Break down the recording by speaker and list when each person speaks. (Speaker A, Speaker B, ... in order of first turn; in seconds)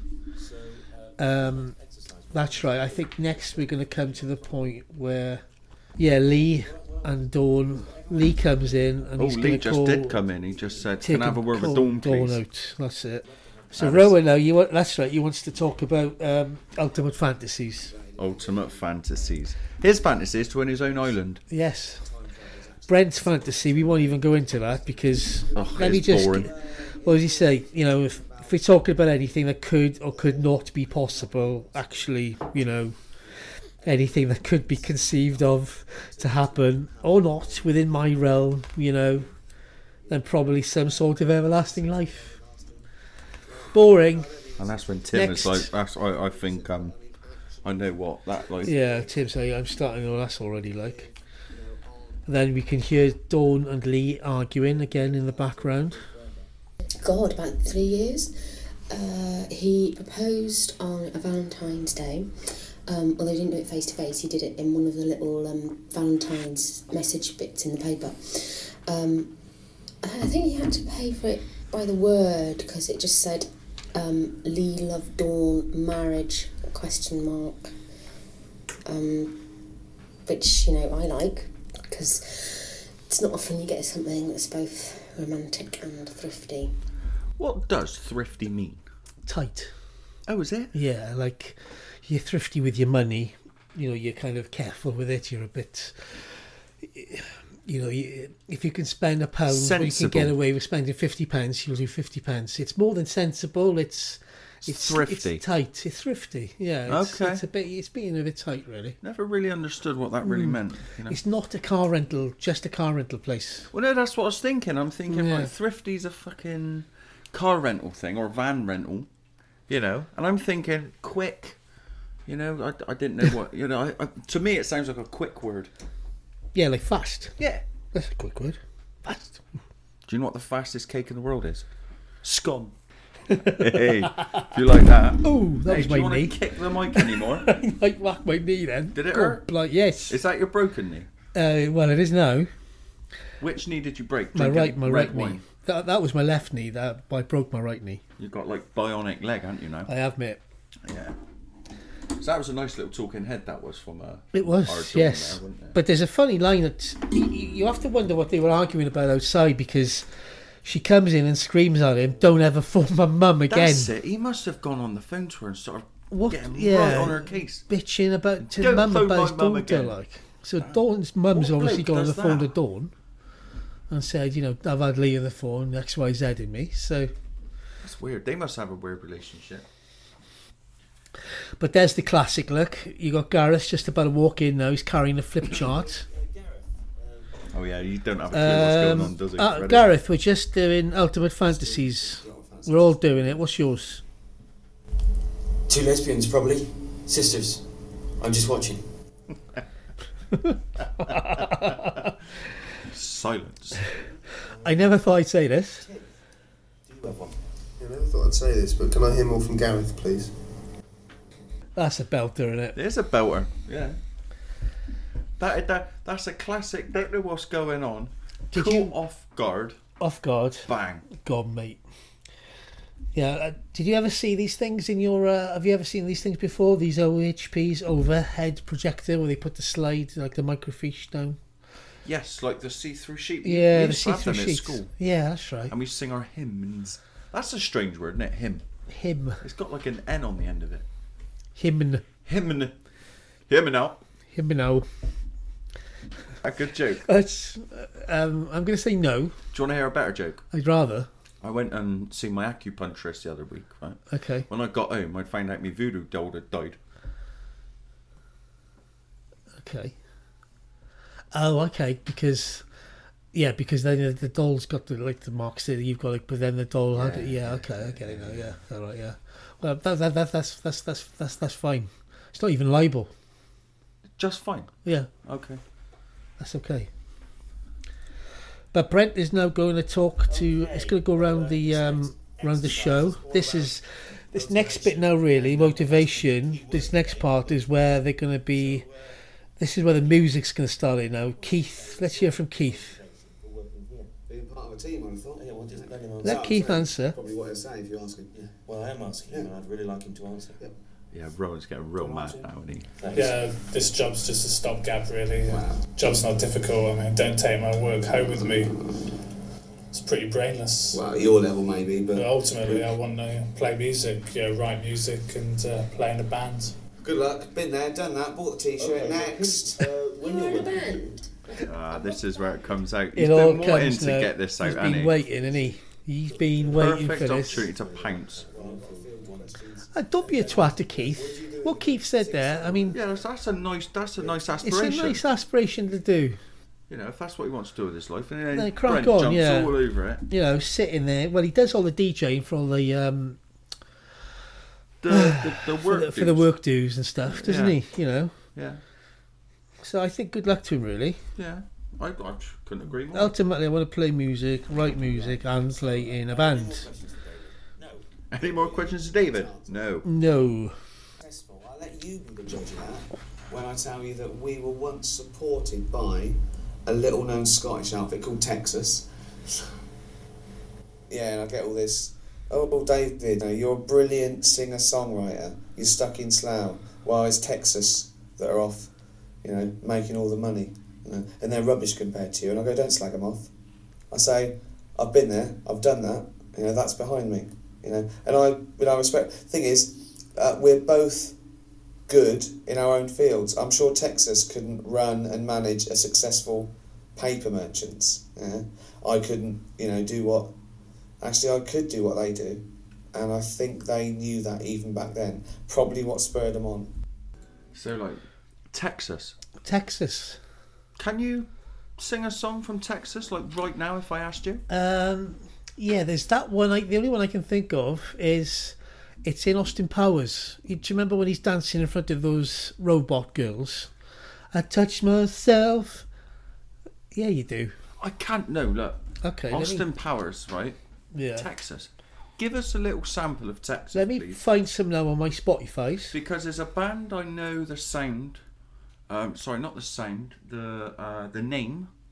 Speaker A: 0.4-3.1, 6.7-7.0, 185.6-187.2, 204.3-204.9, 206.9-207.3, 280.3-283.7, 284.3-287.6, 288.6-289.2, 291.4-294.1, 295.4-296.4, 298.3-300.6, 303.0-303.3, 318.8-321.2, 327.7-329.5, 355.0-358.0
Speaker B: 1.2-1.8, 2.3-5.4, 6.0-10.2, 11.0-17.9, 21.5-22.1, 22.9-33.0, 33.8-39.3, 40.1-42.3, 43.7-44.3, 45.1-45.7, 48.6-51.1, 52.3-56.0, 89.3-89.7, 90.7-96.3, 96.8-109.0, 110.2-113.7, 115.1-115.5, 126.5-127.4, 127.9-129.4, 132.3-132.7, 133.3-134.5, 135.2-140.2, 141.3-142.5, 144.3-148.0, 149.9-150.4, 154.3-160.1, 160.6-163.9, 166.1-172.9, 173.9-177.1, 181.6-186.1, 188.3-194.0, 200.3-202.1, 204.6-205.8, 211.8-212.8, 218.5-218.9, 220.0-221.8, 223.2-231.4, 233.4-235.7, 238.9-239.4, 241.6-242.0, 244.3-244.9, 247.1-249.4, 250.5-251.1, 254.1-254.5, 259.6-259.9, 261.3-262.6, 263.3-273.1, 274.9-275.1, 276.4-276.9, 278.7-288.9, 289.6-293.0, 296.2-297.2, 323.1-327.6, 329.9-333.0, 334.6-336.4, 338.5-343.4, 345.1-348.3, 349.8-351.2, 353.1-356.9, 360.0-360.8, 409.6-410.4, 414.7-423.9, 424.5-426.1, 427.1-427.7, 429.2-429.9, 431.1-431.5, 433.9-436.2
Speaker C: 9.2-12.4, 13.7-14.2, 18.2-21.4, 25.5-26.5, 44.6-47.0, 47.6-48.7, 87.4-88.8, 90.3-90.7, 99.5-100.3, 104.7-105.4, 106.9-107.4, 109.0-111.2, 113.7-119.1, 119.7-121.6, 122.3-125.7, 130.1-131.7, 132.4-132.7, 133.6-137.5, 138.9-139.5, 140.1-141.1, 143.4-145.4, 148.2-149.9, 150.8-151.2, 152.2-155.8, 163.5-167.6, 168.4-170.0, 171.3-172.5, 177.8-179.7, 187.5-189.9, 201.0-202.1, 202.8-203.9, 212.8-214.0, 215.4-219.8, 220.7-221.1, 232.1-234.9, 235.7-238.7, 239.4-240.9, 242.2-242.8, 243.5-244.0, 246.4-247.1, 249.5-250.4, 251.4-256.8, 266.9-268.6, 274.2-274.7, 275.2-275.6, 301.1-302.9, 321.6-325.2, 326.7-328.5, 332.9-335.2, 336.9-340.2, 345.0-346.5, 347.3-347.8, 348.6-348.8, 351.4-353.4, 358.3-360.1, 407.7-409.4, 411.0-414.6, 428.0-430.8, 431.4-434.4, 436.1-438.4, 439.1-441.9
Speaker D: 18.0-18.7, 22.1-24.5, 25.5-27.5, 36.2-37.4, 41.4-42.8, 43.5-44.6, 46.9-47.6, 48.7-49.0, 51.5-52.2, 191.5-193.4, 294.3-298.3, 302.0-302.5, 305.5-305.9, 310.9-312.9, 317.0-319.9, 327.5-333.2, 334.2-334.6, 358.4-359.8, 361.2-369.1, 371.1-378.9, 379.4-383.5, 384.1-391.4, 392.1-400.5, 401.2-406.9
Speaker E: 57.0-58.3, 58.9-69.3, 70.0-77.7, 78.9-79.4, 80.3-86.7, 320.2-321.6
Speaker F: 195.7-197.6, 198.2-198.8
Speaker G: 207.8-210.3
Speaker H: 303.1-308.8, 309.9-311.0, 312.1-316.8